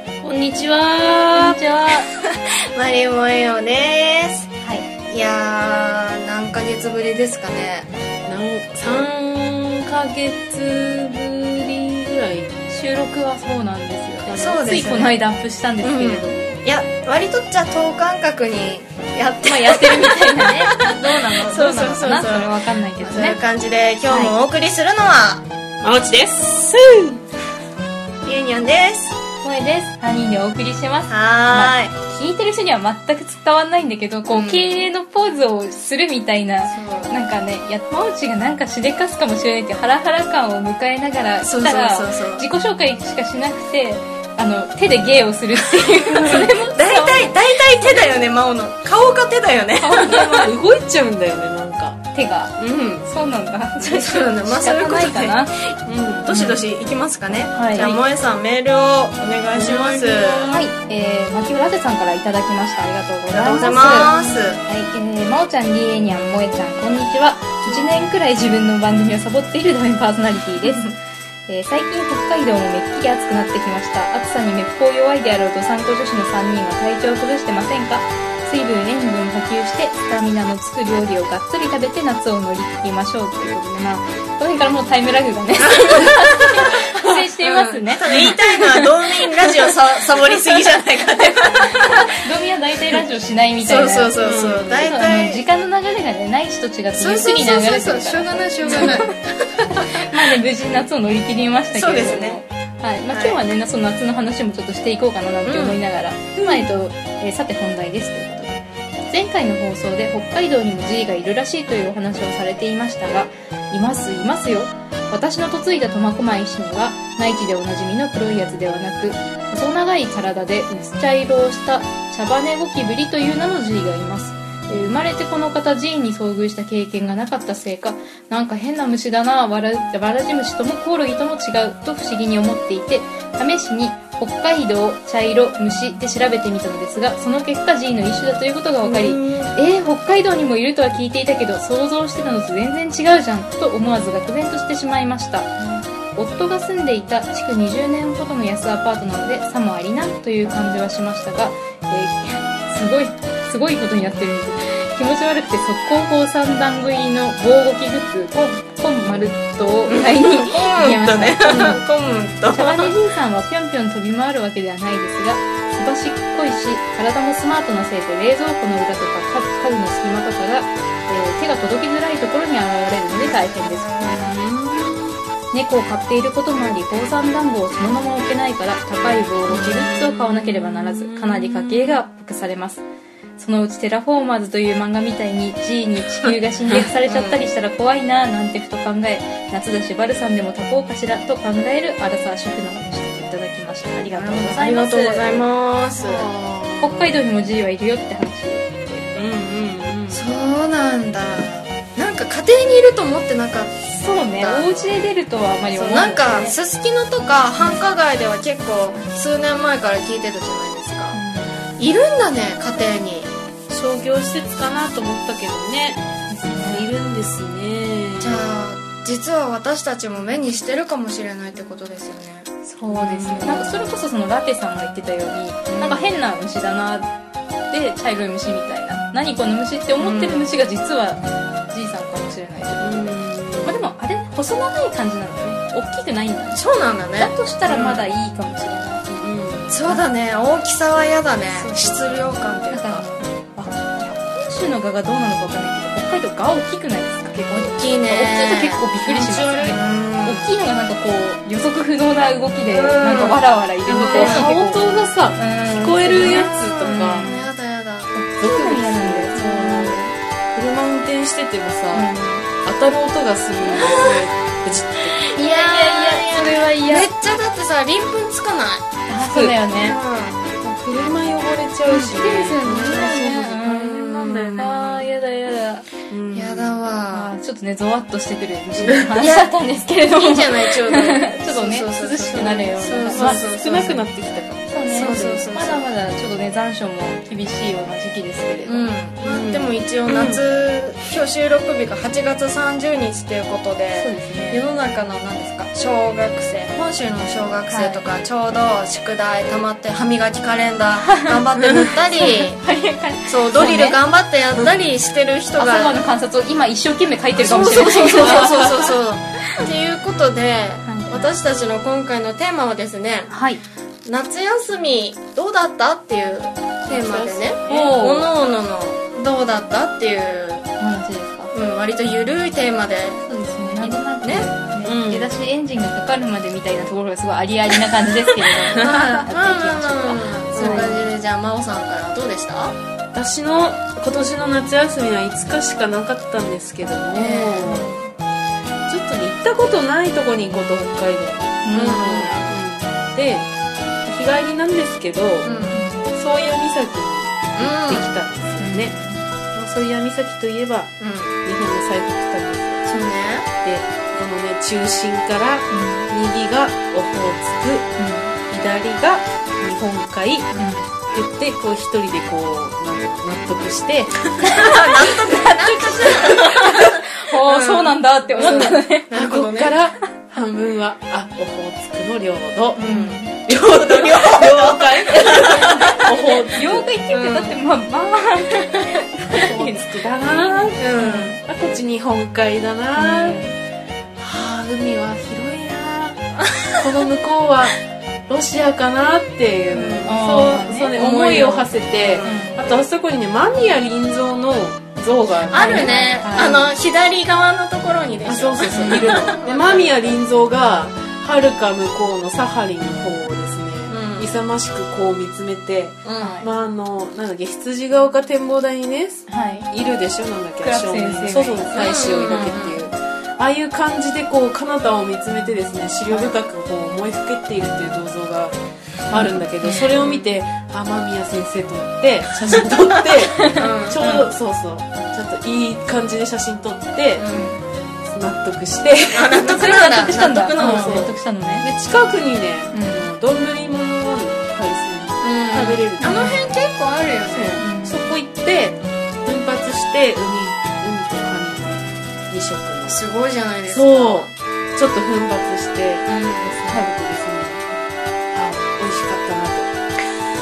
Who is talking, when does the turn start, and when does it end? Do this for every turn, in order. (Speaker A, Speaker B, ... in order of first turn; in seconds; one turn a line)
Speaker A: 0.2-1.6
Speaker B: 1.3-2.1
Speaker C: 2.7-4.5
Speaker B: 4.6-4.9
Speaker C: 5.0-7.9
Speaker A: 8.3-12.5
Speaker B: 12.7-16.6
Speaker C: 14.2-15.2
Speaker C: 15.8-25.4
Speaker B: 19.4-23.4
Speaker B: 24.1-24.4
Speaker A: 25.8-27.2
Speaker C: 28.2-29.2
Speaker B: 29.4-47.4
Speaker C: 31.1-31.9
Speaker C: 34.3-34.9
Speaker C: 36.7-37.1
Speaker C: 41.4-42.5
Speaker C: 45.6-50.5
Speaker A: 49.8-52.0
Speaker B: 52.1-55.5
Speaker C: 52.6-53.1
Speaker C: 53.8-60.5
Speaker A: 55.9-56.3
Speaker B: 56.3-56.6
Speaker B: 57.5-58.0
Speaker A: 59.5-60.7
Speaker B: 60.5-70.9
Speaker C: 63.3-64.6
Speaker A: 63.4-64.3
Speaker C: 67.6-67.9
Speaker B: 71.5-88.9
Speaker C: 85.9-86.8
Speaker C: 87.4-92.0
Speaker B: 91.7-94.2
Speaker C: 93.6-95.5
Speaker A: 94.2-94.9
Speaker B: 94.8-99.1
Speaker C: 97.0-99.8
Speaker A: 98.7-99.0
Speaker B: 99.8-161.8
Speaker C: 101.7-102.4
Speaker C: 103.1-103.4
Speaker C: 105.5-105.8
Speaker C: 138.8-139.5
Speaker C: 159.9-162.9
Speaker B: 162.5-174.3
Speaker C: 173.2-174.3
Speaker A: 174.1-175.2
Speaker B: 175.5-182.8
Speaker A: 179.4-182.0
Speaker B: 183.4-195.4
Speaker C: 187.0-187.4
Speaker C: 194.1-196.3
Speaker A: 196.0-197.2
Speaker B: 196.8-199.1
Speaker A: 199.2-200.2
Speaker C: 200.1-203.8
Speaker B: 203.9-206.6
Speaker C: 204.3-205.0
Speaker C: 205.8-211.2
Speaker B: 207.6-207.8
Speaker B: 211.1-211.6
Speaker C: 211.8-213.3
Speaker A: 213.7-216.1
Speaker B: 216.3-216.9
Speaker A: 216.6-218.5
Speaker C: 218.2-223.9
Speaker B: 222.7-227.1
Speaker C: 225.7-226.1
Speaker B: 227.7-236.7
Speaker C: 230.0-230.5
Speaker A: 232.8-233.8
Speaker C: 236.5-238.1
Speaker B: 237.2-239.3
Speaker A: 239.2-239.8
Speaker C: 239.7-243.1
Speaker B: 241.5-257.5
Speaker C: 247.6-248.8
Speaker A: 249.0-249.8
Speaker C: 249.6-250.6
Speaker C: 252.7-253.4
Speaker A: 253.9-257.4
Speaker C: 254.0-254.4
Speaker C: 256.1-258.1
Speaker B: 258.1-260.1
Speaker A: 258.4-262.1
Speaker B: 261.9-262.5
Speaker A: 262.6-265.2
Speaker B: 263.7-264.0
Speaker C: 263.8-264.2
Speaker B: 265.2-267.1
Speaker C: 265.3-268.9
Speaker B: 269.1-270.0
Speaker A: 269.2-269.6
Speaker C: 269.7-270.4
Speaker A: 270.6-275.1
Speaker B: 271.9-275.9
Speaker C: 273.6-274.7
Speaker A: 276.1-276.8
Speaker C: 276.3-277.3
Speaker B: 277.1-283.4
Speaker C: 278.8-284.1
Speaker A: 283.1-284.7
Speaker B: 284.7-288.9
Speaker C: 284.9-285.9
Speaker C: 288.6-302.6
Speaker A: 289.2-290.4
Speaker B: 294.0-294.6
Speaker B: 297.7-298.0
Speaker B: 301.1-304.0
Speaker C: 303.2-306.0
Speaker B: 305.6-308.7
Speaker A: 307.4-309.0
Speaker C: 307.4-313.3
Speaker B: 310.9-311.3
Speaker B: 313.3-313.6
Speaker C: 314.1-320.7
Speaker A: 316.9-318.3
Speaker B: 320.8-321.5
Speaker C: 321.5-323.2
Speaker B: 323.2-331.1
Speaker C: 323.8-324.5
Speaker A: 324.8-325.3
Speaker C: 328.7-332.8
Speaker A: 330.6-330.9
Speaker A: 333.1-337.9
Speaker C: 337.1-338.1
Speaker A: 338.9-343.5
Speaker B: 341.6-342.1
Speaker C: 341.7-342.6
Speaker A: 344.1-345.6
Speaker C: 345.4-345.8
Speaker B: 345.7-346.1
Speaker A: 346.1-348.9
Speaker C: 347.6-348.2
Speaker B: 348.6-349.2
Speaker A: 349.5-350.9
Speaker C: 351.0-351.4
Speaker A: 351.4-352.8
Speaker C: 352.9-353.5
Speaker A: 353.6-357.9
Speaker B: 355.7-356.1
Speaker B: 358.0-358.4
Speaker A: 358.5-360.5
Speaker B: 360.6-360.9
Speaker A: 361.1-364.9
Speaker C: 364.5-366.9
Speaker B: 365.6-369.1
Speaker A: 365.9-367.0
Speaker C: 367.4-369.8
Speaker A: 368.4-372.9
Speaker C: 372.8-376.3
Speaker B: 372.8-373.4
Speaker A: 373.5-376.9
Speaker B: 375.3-381.4
Speaker C: 377.1-377.6
Speaker A: 379.3-383.4
Speaker C: 380.8-381.4
Speaker B: 383.0-383.5
Speaker A: 384.2-396.0
Speaker C: 389.7-390.1
Speaker B: 390.1-392.6
Speaker C: 391.0-392.4
Speaker B: 395.5-396.7
Speaker C: 395.5-400.2
Speaker A: 398.3-427.3
Speaker B: 398.8-399.2
Speaker C: 403.9-404.3
Speaker C: 406.1-406.4
Speaker B: 406.2-406.5
Speaker B: 409.3-409.7
Speaker B: 410.6-412.6
Speaker C: 411.8-412.8
Speaker B: 419.1-419.9
Speaker C: 419.8-420.3
Speaker B: 423.3-424.3
Speaker C: 423.5-424.0
Speaker C: 427.2-427.5
Speaker B: 427.3-427.6
Speaker A: 428.1-436.5
Speaker C: 429.1-431.1
Speaker B: 429.5-431.7
Speaker B: 432.7-433.1
Speaker C: 435.2-437.6
Speaker B: 436.0-436.5
Speaker A: 437.3-443.0
Speaker B: 437.6-438.1
Speaker C: 442.8-444.3
Speaker A: 443.7-449.7
Speaker C: 446.1-446.6